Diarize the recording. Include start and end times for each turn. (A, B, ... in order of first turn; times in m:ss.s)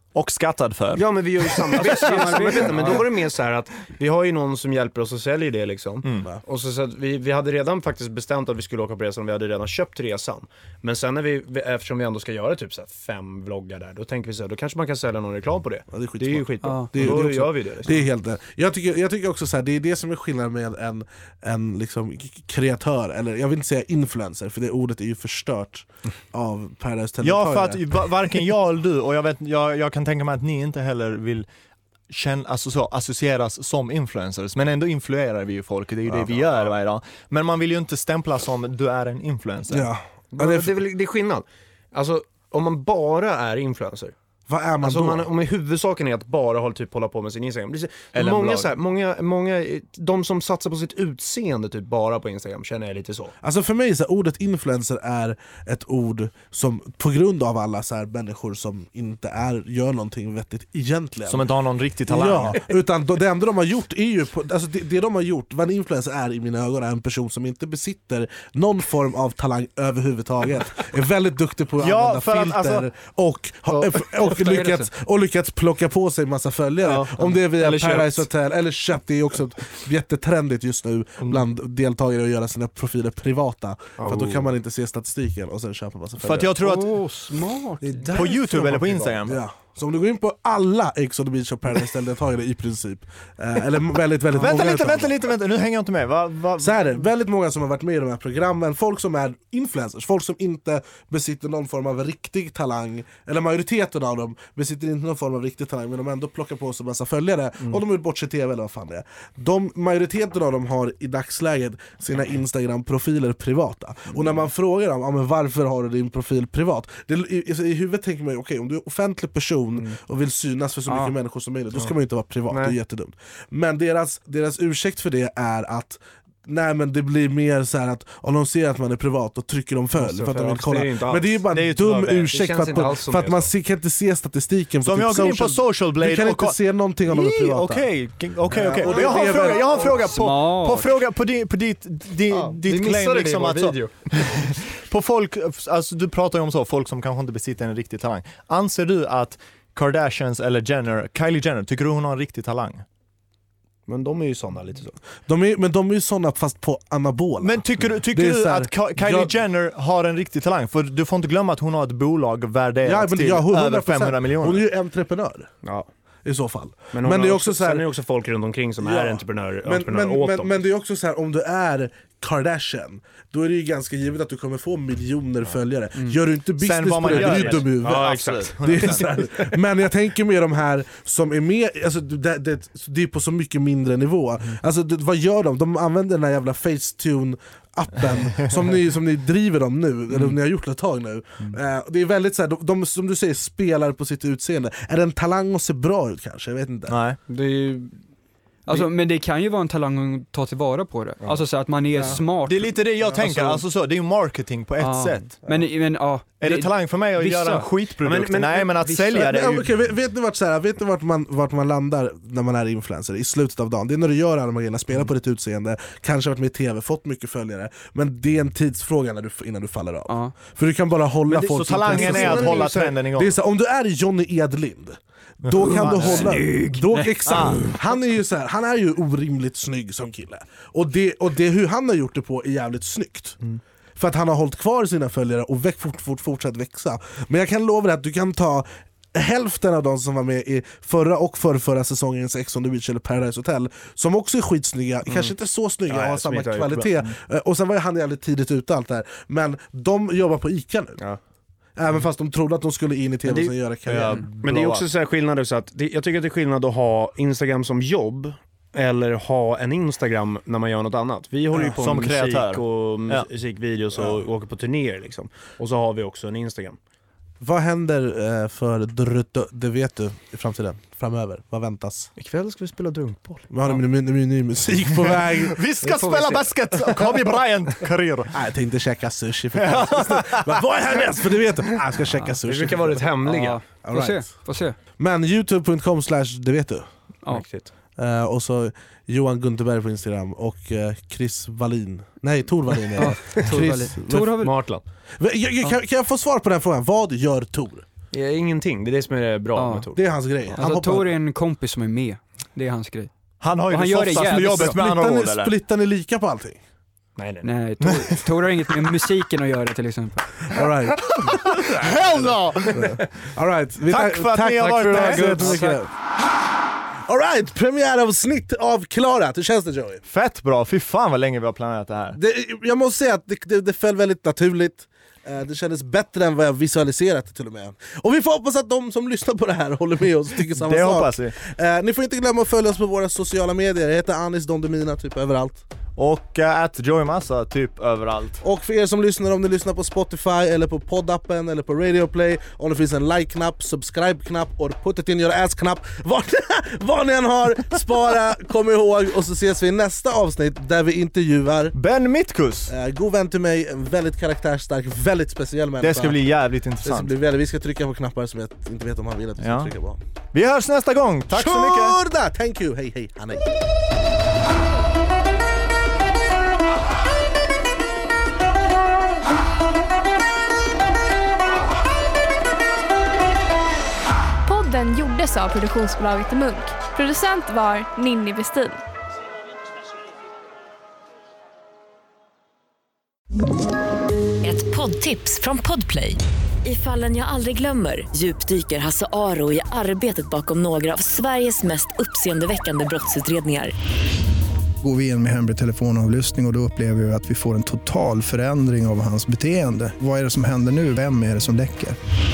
0:00.1-0:02.9 A
0:00.9-0:18.0 B
0:01.8-0:03.0 C
0:15.9-0:27.8 D
0:16.6-0:16.9 C
0:27.2-0:31.4 A
0:32.1-0:39.9 A
0:36.0-0:36.4 D
0:39.7-0:40.7 D
0:40.3-0:44.1 B
0:44.5-0:45.3 D
0:44.8-0:53.3 B
0:48.1-0:48.7 A
0:53.4-1:01.5 D
1:01.3-1:02.6 A
1:02.1-1:26.5 D
1:11.8-1:12.8 A
1:14.2-1:14.9 C
1:17.5-1:18.2 B
1:24.0-1:24.5 B
1:26.2-1:27.0 A
1:26.6-1:28.4 C
1:27.9-1:28.6 D
1:28.1-1:29.4 A
1:29.2-1:35.2 D
1:34.4-1:37.0 A
1:36.6-2:20.0 D
2:00.9-2:01.1 C
2:02.5-2:02.7 B
2:10.0-2:11.4 B
2:11.5-2:12.3 A
2:12.2-2:13.5 B
2:14.8-2:32.8 A
2:19.7-2:20.9 C
2:22.6-2:23.9 B
2:33.9-2:35.0 B
2:35.2-2:39.4 D
2:37.4-2:44.6 A
2:42.8-2:45.5 D
2:46.2-2:47.9 D
2:46.9-2:50.5 B
2:48.8-3:17.0 D
2:56.6-2:59.1 A
2:57.1-2:59.5 B
3:16.9-3:17.2 A
3:17.3-3:18.0 B
3:18.7-3:22.7 C
3:22.0-3:22.2 D
3:22.1-3:25.4 A
3:23.3-3:23.6 B
3:24.8-3:27.7 C
3:26.4-3:29.6 A
3:28.0-3:29.3 B
3:29.1-3:53.4 D
3:40.1-3:40.3 C
3:41.3-3:43.3 A
3:41.8-3:42.9 B
3:45.6-3:46.5 A
3:46.0-3:47.1 C
3:47.2-3:47.6 A
3:54.0-4:11.0 D
4:05.1-4:05.3 B
4:05.9-4:06.8 B
4:06.8-4:07.0 A
4:11.8-4:14.3 D
4:13.2-4:13.5 B
4:13.9-4:14.8 A
4:14.4-4:26.8 B
4:21.6-4:23.3 A
4:23.9-4:24.2 D
4:27.4-4:32.1 D
4:32.2-4:33.5 B
4:33.5-4:35.6 D
4:35.4-4:38.4 A
4:35.8-4:37.0 B
4:38.3-4:43.1 D
4:39.6-4:40.6 A
4:42.4-4:43.6 B
4:43.2-4:44.8 C
4:43.8-4:46.9 D
4:47.3-4:47.7 B
4:48.0-4:54.4 D
4:53.0-4:54.5 C
4:54.4-4:54.8 B
4:55.2-4:57.8 D
4:58.1-5:00.0 B
4:59.6-4:59.8 C
4:59.9-5:01.1 D
5:00.6-5:03.1 C
5:03.4-5:05.5 A
5:03.6-5:04.8 C
5:04.3-5:06.6 D
5:07.2-5:07.5 B
5:07.4-5:10.3 C
5:10.5-5:15.9 D
5:11.2-5:12.9 A
5:13.9-5:15.6 A
5:14.9-5:15.8 B
5:17.1-5:20.0 D
5:20.1-5:22.2 A
5:22.1-5:35.6 D
5:30.5-5:31.4 A
5:36.0-5:38.4 A
5:38.4-5:51.8 D
5:51.7-5:52.7 A
5:52.7-6:00.0 D
5:55.8-5:57.1 A
5:59.4-5:59.7 A
6:00.3-6:02.0 A
6:01.3-6:03.5 D
6:14.4-6:18.8 E
6:24.4-6:33.7 F
6:34.8-6:42.0 G